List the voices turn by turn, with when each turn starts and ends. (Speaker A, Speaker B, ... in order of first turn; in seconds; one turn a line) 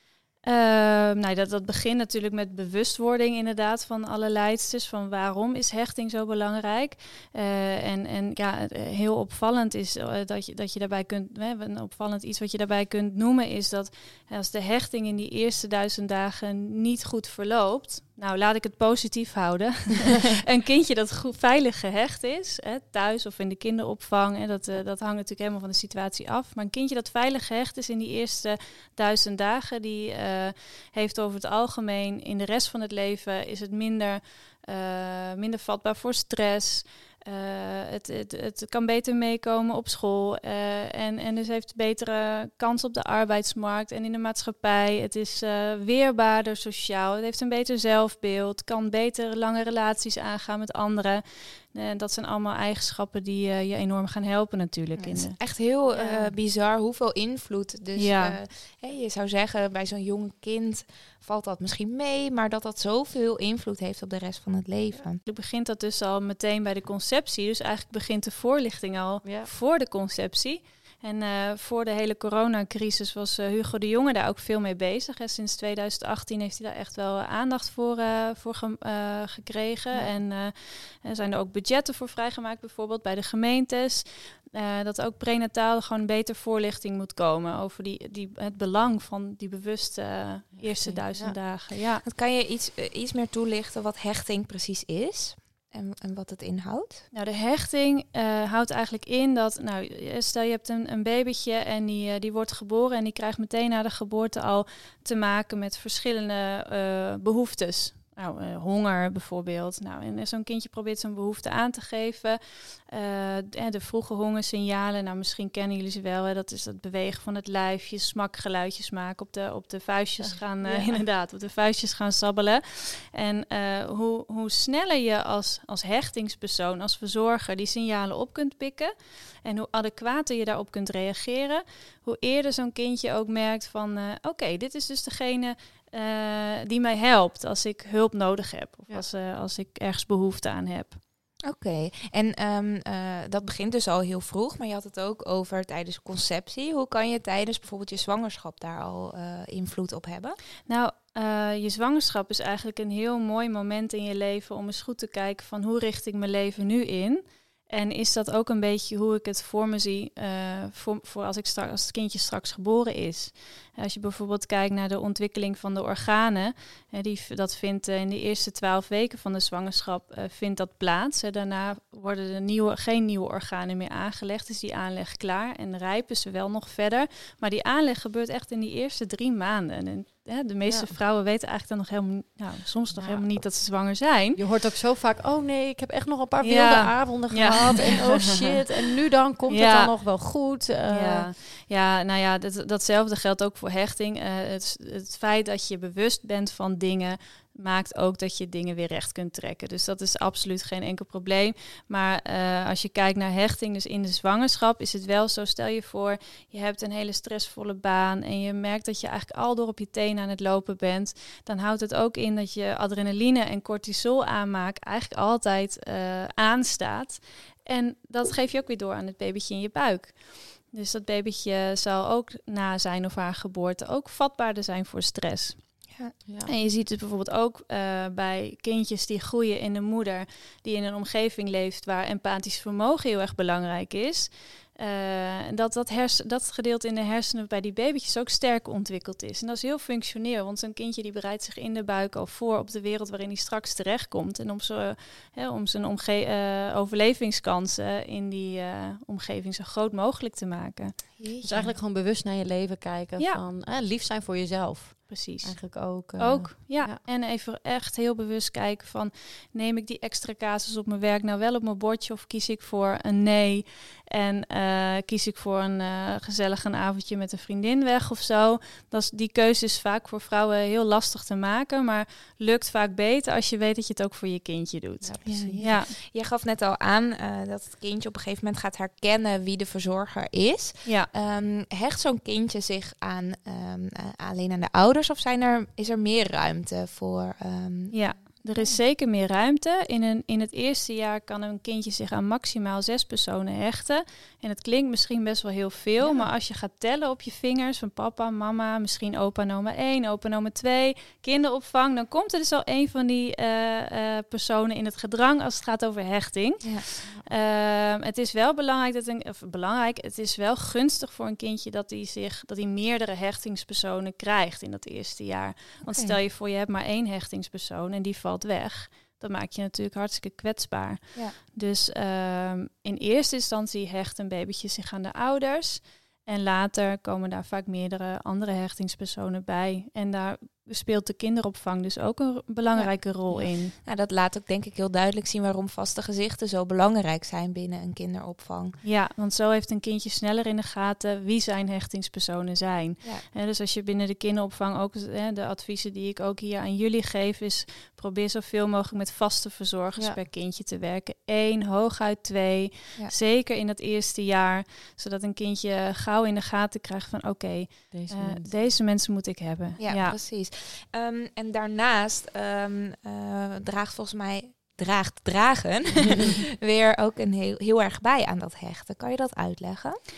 Speaker A: 0.4-55.4
Speaker B: 55.0-65.2
Speaker C: 55.9-56.3
Speaker A: 58.0-58.4
Speaker A: 65.2-92.0
Speaker C: 69.2-69.5
Speaker C: 90.5-91.3
Speaker B: 92.0-97.0
Speaker A: 97.1-141.0
Speaker C: 120.2-121.0
Speaker B: 141.4-150.4
Speaker A: 150.7-184.4
Speaker C: 182.9-183.3
Speaker C: 184.3-191.3
Speaker A: 186.4-188.3
Speaker A: 189.5-189.9
Speaker A: 190.9-225.7
Speaker C: 226.2-226.5
Speaker A: 226.5-251.1
Speaker B: 251.2-251.8
Speaker C: 251.4-257.0
Speaker A: 255.1-275.9
Speaker C: 275.0-275.7
Speaker B: 275.2-288.8
Speaker A: 280.8-281.1
Speaker A: 287.9-333.7
Speaker B: 315.8-316.2
Speaker B: 332.8-338.8
Speaker A: 338.8-360.2
Speaker C: 357.9-358.8
Speaker B: 359.8-370.0